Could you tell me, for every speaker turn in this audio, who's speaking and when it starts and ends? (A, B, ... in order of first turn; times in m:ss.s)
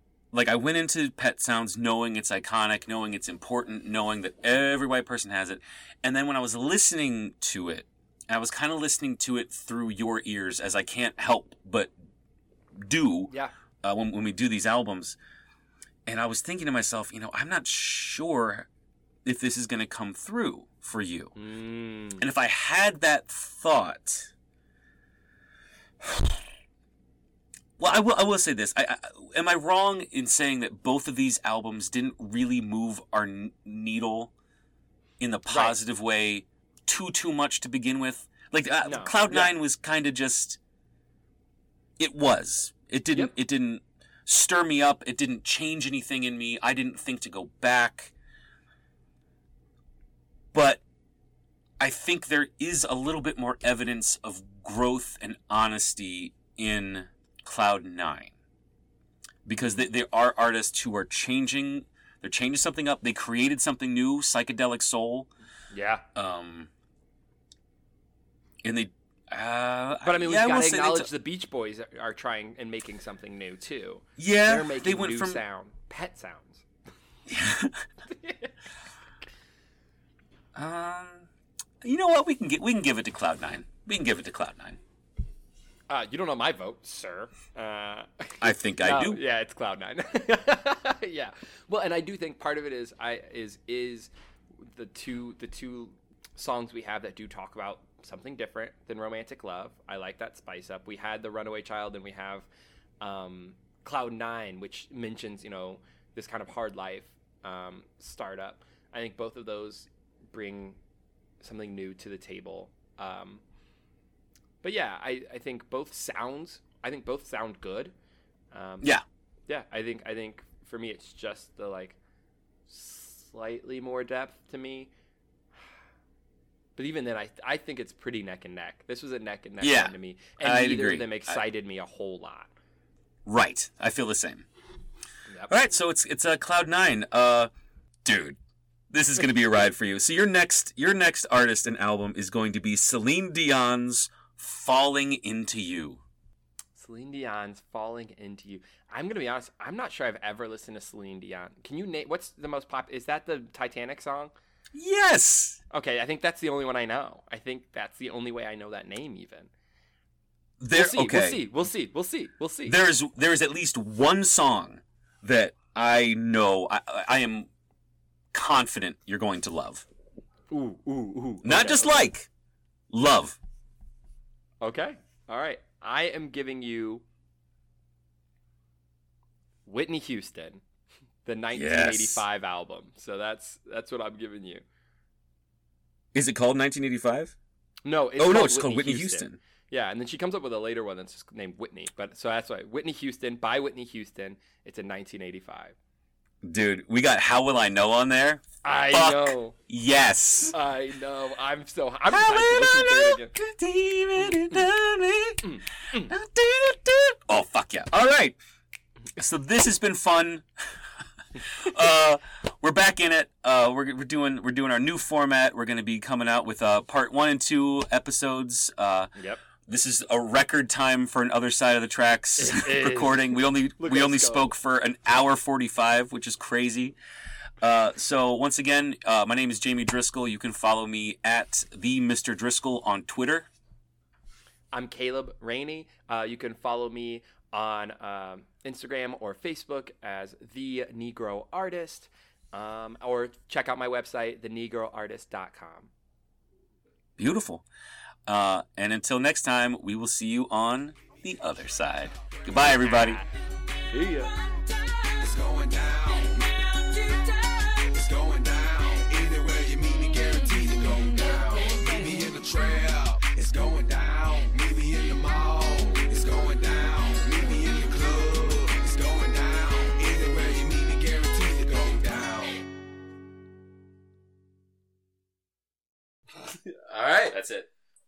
0:00.3-0:11.9 A
0:12.7-0:13.3 A
0:13.8-0:15.2 A
0:16.1-0:18.7 A
0:19.2-0:21.3 A
0:21.4-0:22.2 B
0:22.2-0:24.3 A
0:26.0-0:26.4 A
0:27.8-0:34.3 A
0:35.2-0:40.6 A
0:35.5-0:35.8 B
0:38.8-0:39.5 B
0:42.0-0:48.1 A
0:50.5-0:50.8 A
0:51.8-0:58.3 A
0:59.5-1:05.3 A
1:05.7-1:06.0 B
1:06.2-1:06.7 A
1:08.6-1:11.1 A
1:10.0-1:16.7 B
1:14.2-1:15.4 A
1:17.3-1:17.8 A
1:18.1-1:18.5 B
1:20.6-1:21.3 A
1:21.8-1:24.8 A
1:25.9-1:42.5 B
1:28.4-1:29.2 A
1:43.0-1:50.8 B
1:51.4-1:53.4 B
1:54.6-1:57.9 B
1:58.5-1:59.0 B
1:59.5-2:02.0 B
2:02.7-2:04.9 B
2:06.8-2:12.5 B
2:09.6-2:11.4 A
2:13.3-2:14.5 A
2:15.5-2:17.5 A
2:18.0-2:18.4 A
2:18.9-2:26.0 A
2:26.8-2:34.3 B
2:34.7-2:35.6 A
2:35.7-2:39.5 B
2:40.6-2:41.5 A
2:40.7-2:42.8 B
2:42.7-2:47.5 A
2:48.3-2:49.9 A
2:50.5-2:52.1 B
2:51.4-2:52.3 A
2:52.9-2:53.4 A
2:54.6-2:57.0 B
2:59.7-3:00.6 B
3:01.2-3:04.6 B
3:01.5-3:02.2 A
3:06.1-3:07.4 A
3:07.8-3:15.8 B
3:08.2-3:09.4 A
3:16.4-3:20.5 A
3:18.6-3:19.6 B
3:20.5-3:23.4 B
3:22.1-3:28.4 A
3:25.4-3:26.1 B
3:29.2-3:30.8 A
3:31.4-3:39.1 A
3:39.2-3:39.4 B
3:39.6-3:47.0 A
3:42.4-3:44.5 B
3:47.6-3:53.5 A
3:54.7-4:05.9 B
4:07.2-4:07.6 A
4:08.3-4:13.2 A
4:12.5-4:13.3 B
4:13.9-4:14.4 B
4:15.1-4:32.6 C
4:36.9-4:37.7 A